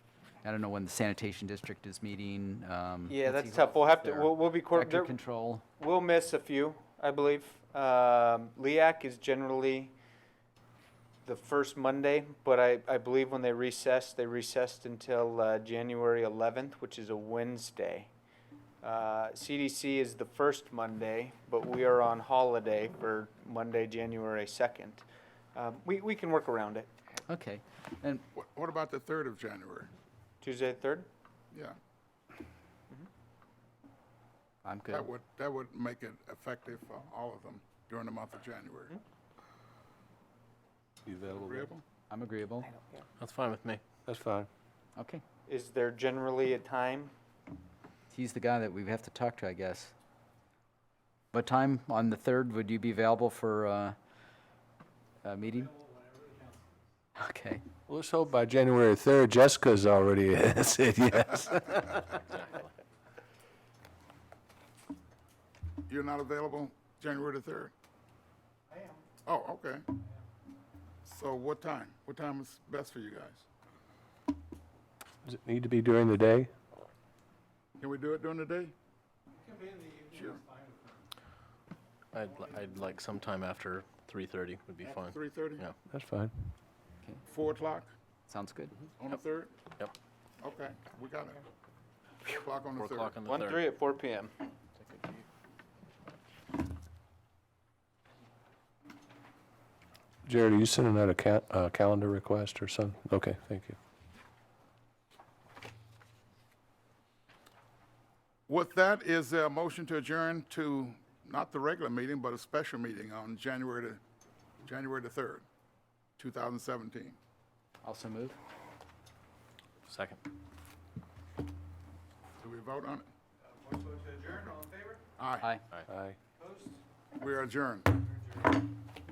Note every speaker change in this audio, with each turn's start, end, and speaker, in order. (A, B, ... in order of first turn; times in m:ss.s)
0:00.4-0:05.6 A
0:03.1-0:05.1 B
0:05.8-0:09.9 B
0:11.2-0:18.1 B
0:18.8-0:26.9 B
0:27.3-0:28.2 A
0:28.3-0:29.9 C
0:30.4-0:31.1 B
0:34.6-0:35.1 A
0:34.9-0:39.0 C
0:41.0-0:41.7 D
0:41.3-0:41.8 C
0:42.1-0:42.7 A
0:42.7-0:43.0 B
0:43.2-0:43.8 E
0:44.0-0:44.5 D
0:45.0-0:45.2 A
0:45.5-0:47.1 B
0:48.1-0:49.9 A
0:51.3-0:54.0 A
0:55.2-0:55.7 A
0:57.2-0:57.6 A
0:57.9-1:02.0 D
1:02.3-1:02.7 E
1:05.9-1:07.7 C
1:09.2-1:09.9 C
1:11.0-1:13.4 C
1:15.2-1:16.5 D
1:17.8-1:18.7 C
1:20.0-1:20.4 C
1:22.1-1:25.8 E
1:24.8-1:25.6 C
1:25.9-1:26.3 D
1:27.3-1:27.9 C
1:28.3-1:28.8 A
1:29.0-1:29.5 C
1:30.4-1:31.4 C
1:32.2-1:33.1 C
1:32.8-1:33.6 E
1:33.2-1:34.3 B
1:40.2-1:43.8 D
1:48.5-1:54.0 C
1:54.6-1:55.4 C
1:56.2-1:57.2 C
1:57.8-1:58.4 A
1:59.9-2:00.2 E
2:02.4-2:03.1 C
2:03.5-2:05.0 B
2:05.2-2:05.5 C
2:05.9-2:06.2 D
2:06.4-2:06.8 B
2:07.1-2:08.0 C